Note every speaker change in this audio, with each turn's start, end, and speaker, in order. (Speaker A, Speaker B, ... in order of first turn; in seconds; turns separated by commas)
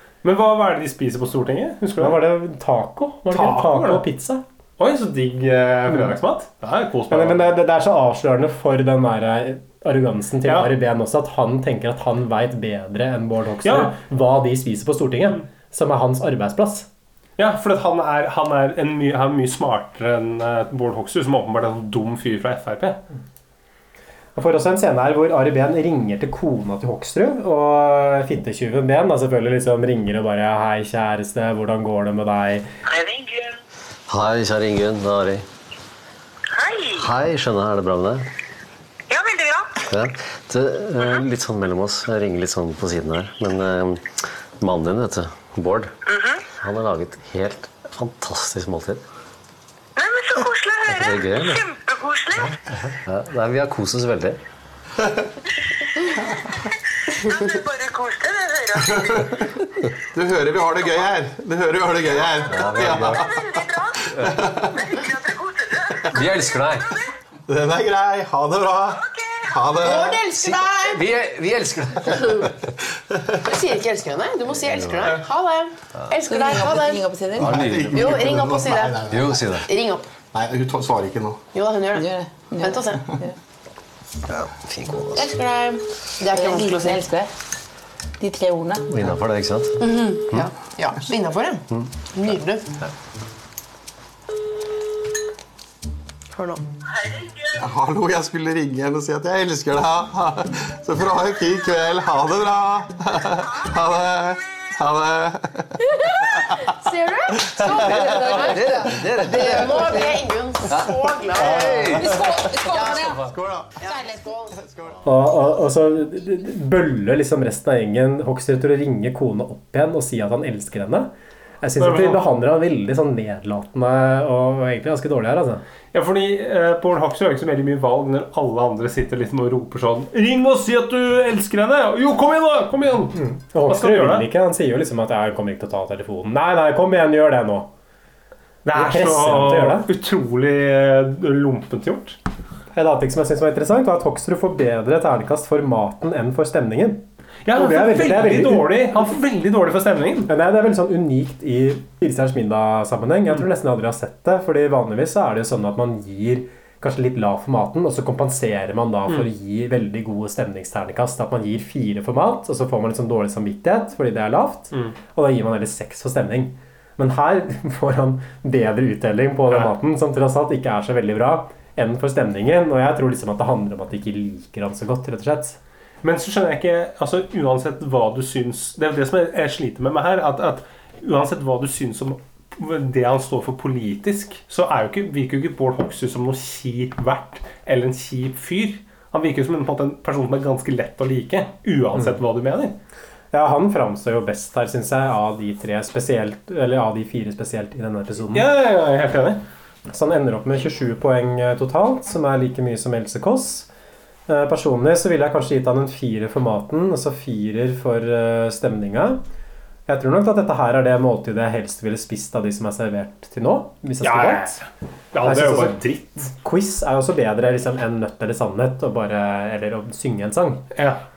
Speaker A: 0.2-2.2, Speaker B: 2.0-4.4, Speaker A: 3.3-4.0, Speaker A: 4.8-7.5, Speaker B: 7.1-16.9, Speaker A: 10.4-10.7, Speaker A: 13.6-13.9, Speaker A: 17.4-23.0, Speaker B: 24.4-32.7, Speaker C: 32.9-33.6, Speaker D: 34.1-35.4, Speaker C: 36.5-37.0, Speaker D: 37.0-38.2, Speaker C: 39.1-39.7, Speaker D: 39.9-45.9, Speaker C: 46.1-46.4, Speaker D: 46.6-49.0, Speaker C: 50.0-52.5, Speaker D: 50.9-51.6, Speaker D: 52.5-54.4, Speaker C: 57.3-59.0, Speaker E: 58.8-59.4, Speaker E: 60.1-63.6, Speaker D: 62.5-63.2, Speaker C: 62.7-64.0, Speaker E: 64.2-65.0, Speaker C: 64.9-66.0, Speaker D: 66.1-66.9, Speaker E: 67.5-70.6, Speaker F: 69.8-71.0, Speaker D: 70.8-72.3, Speaker F: 73.4-77.0, Speaker D: 74.7-74.9, Speaker G: 76.2-77.6, Speaker E: 77.3-79.6, Speaker D: 77.4-78.3, Speaker F: 77.9-79.0, Speaker D: 79.1-79.7, Speaker F: 79.7-80.1, Speaker E: 80.3-81.4, Speaker F: 81.5-83.1, Speaker G: 81.9-83.3, Speaker D: 84.4-85.3, Speaker F: 85.1-87.0, Speaker G: 86.2-87.3, Speaker G: 88.2-89.1, Speaker D: 88.9-89.7, Speaker F: 89.8-92.6, Speaker G: 90.8-91.0, Speaker F: 96.3-96.6, Speaker E: 97.6-106.7, Speaker F: 106.0-113.0, Speaker E: 107.5-109.1, Speaker D: 107.6-109.8, Speaker E: 110.7-113.7, Speaker F: 113.8-114.3, Speaker E: 114.5-115.0, Speaker B: 115.0-121.1, Speaker B: 121.6-125.6, Speaker A: 121.8-122.2, Speaker A: 125.9-134.3, Speaker B: 133.1-137.7, Speaker A: 138.6-142.2, Speaker B: 138.7-139.9, Speaker B: 142.7-148.8, Speaker A: 147.4-150.3, Speaker B: 150.3-175.6, Speaker A: 176.0-192.8, Speaker B: 193.3-198.5, Speaker A: 198.3-199.4, Speaker B: 199.9-203.7, Speaker B: 204.3-209.2, Speaker B: 209.9-214.6, Speaker A: 214.0-216.3, Speaker B: 215.2-220.6, Speaker A: 220.7-221.0